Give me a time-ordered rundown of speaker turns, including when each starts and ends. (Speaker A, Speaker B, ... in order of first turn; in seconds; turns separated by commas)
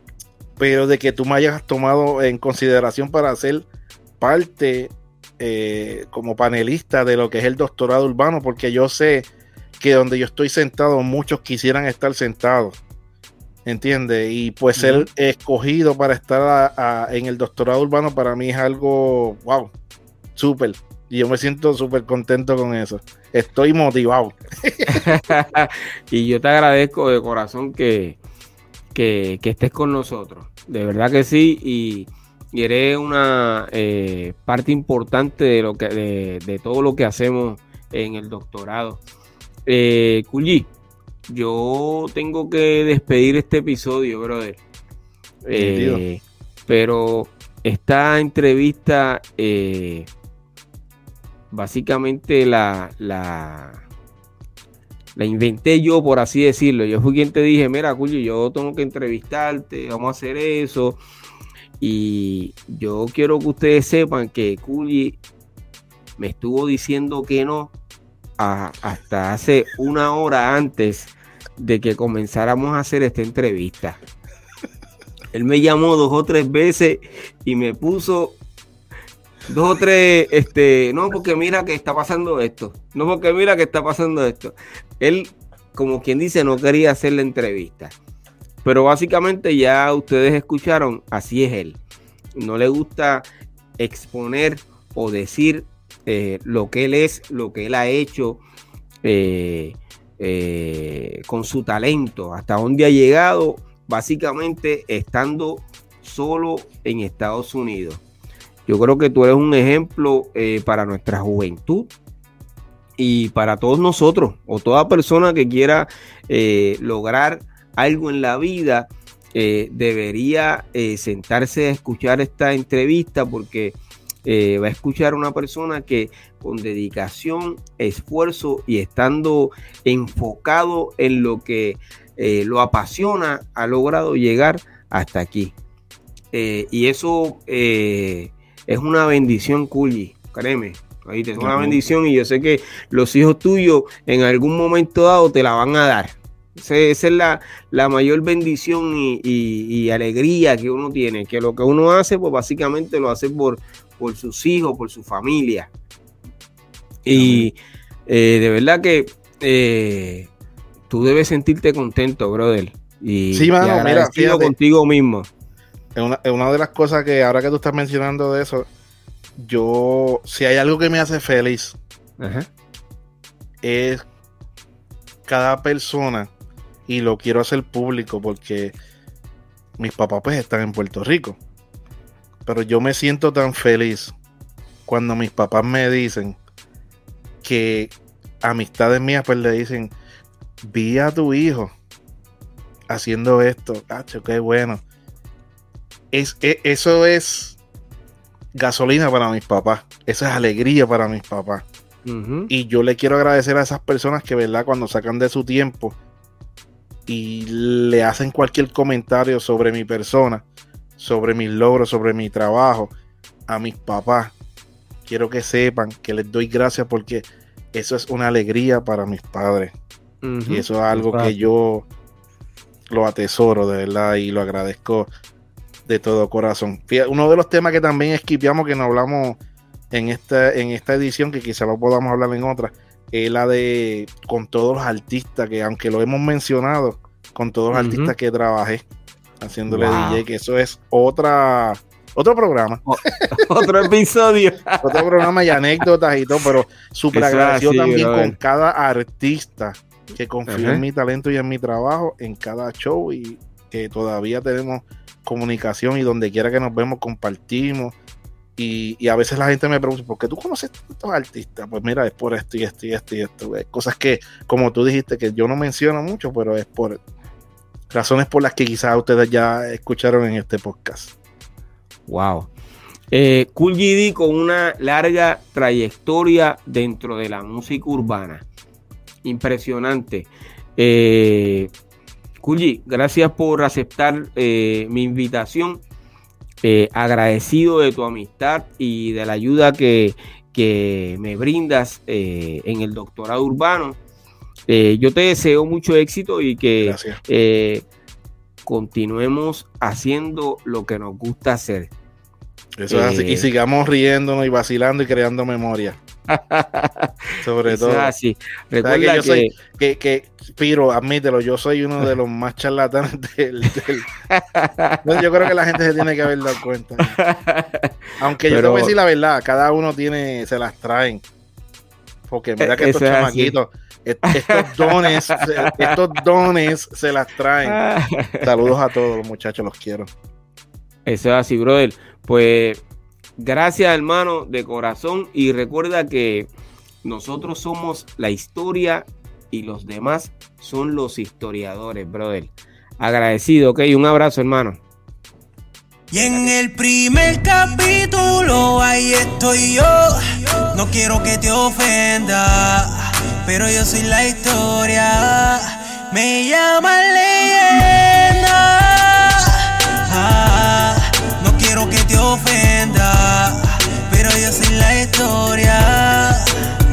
Speaker A: 0.6-3.6, Speaker A: 4.2-9.3, Speaker A: 9.8-12.8, Speaker A: 13.7-19.7, Speaker B: 14.8-15.1, Speaker A: 20.4-25.1, Speaker B: 24.9-28.2, Speaker B: 28.9-39.0, Speaker B: 39.6-40.7, Speaker B: 41.3-44.6, Speaker B: 45.4-50.1, Speaker A: 45.5-46.0, Speaker B: 51.5-53.8, Speaker B: 55.1-61.0, Speaker B: 61.8-65.2, Speaker B: 66.2-67.7, Speaker B: 68.4-74.0, Speaker B: 75.3-78.4, Speaker B: 79.5-87.9, Speaker B: 88.6-91.8, Speaker B: 92.3-93.2, Speaker B: 93.8-98.4, Speaker B: 99.0-108.0, Speaker B: 108.7-111.9, Speaker B: 113.0-135.5, Speaker B: 136.3-155.7, Speaker A: 141.4-141.8, Speaker B: 157.0-160.3, Speaker A: 157.1-157.5, Speaker B: 160.9-165.3, Speaker A: 163.3-164.5, Speaker A: 165.9-168.7, Speaker A: 169.4-171.8, Speaker B: 172.2-172.5, Speaker A: 173.6-174.0, Speaker A: 175.3-176.3, Speaker A: 176.9-178.7, Speaker A: 179.8-181.4, Speaker A: 182.4-184.1, Speaker A: 184.9-186.4, Speaker A: 187.4-189.9, Speaker A: 190.6-191.7, Speaker A: 192.9-194.8, Speaker A: 196.1-197.6, Speaker A: 198.5-201.6, Speaker B: 202.1-202.5, Speaker A: 202.5-205.9, Speaker A: 207.1-210.4, Speaker A: 211.0-212.9, Speaker A: 213.5-214.3, Speaker A: 215.1-219.7, Speaker B: 220.2-221.4, Speaker A: 220.5-221.9, Speaker A: 222.9-225.1, Speaker A: 225.8-229.4, Speaker A: 229.9-238.8, Speaker B: 237.7-238.1, Speaker A: 239.4-243.9, Speaker B: 239.7-240.2, Speaker B: 242.9-245.3, Speaker A: 244.8-257.9, Speaker B: 247.1-248.3, Speaker B: 250.5-250.8, Speaker A: 258.6-267.0, Speaker A: 267.9-271.1, Speaker B: 272.1-272.5, Speaker B: 273.1-278.4, Speaker B: 279.2-281.7, Speaker B: 282.4-285.8, Speaker B: 286.6-294.0, Speaker B: 294.7-297.8, Speaker A: 296.8-297.2, Speaker B: 298.6-301.9, Speaker A: 302.8-306.0, Speaker B: 302.9-303.5, Speaker B: 306.3-309.5, Speaker A: 307.4-308.1, Speaker A: 308.8-314.1, Speaker B: 313.7-315.5, Speaker A: 315.0-317.2, Speaker B: 316.0-317.9, Speaker A: 318.2-321.2, Speaker B: 318.5-318.9, Speaker A: 322.3-327.8, Speaker B: 322.6-323.6, Speaker B: 324.3-325.9, Speaker B: 327.6-328.7, Speaker A: 328.4-330.1, Speaker B: 331.1-332.8, Speaker B: 333.4-336.5, Speaker B: 337.0-344.8, Speaker C: 346.1-366.4, Speaker B: 346.2-346.5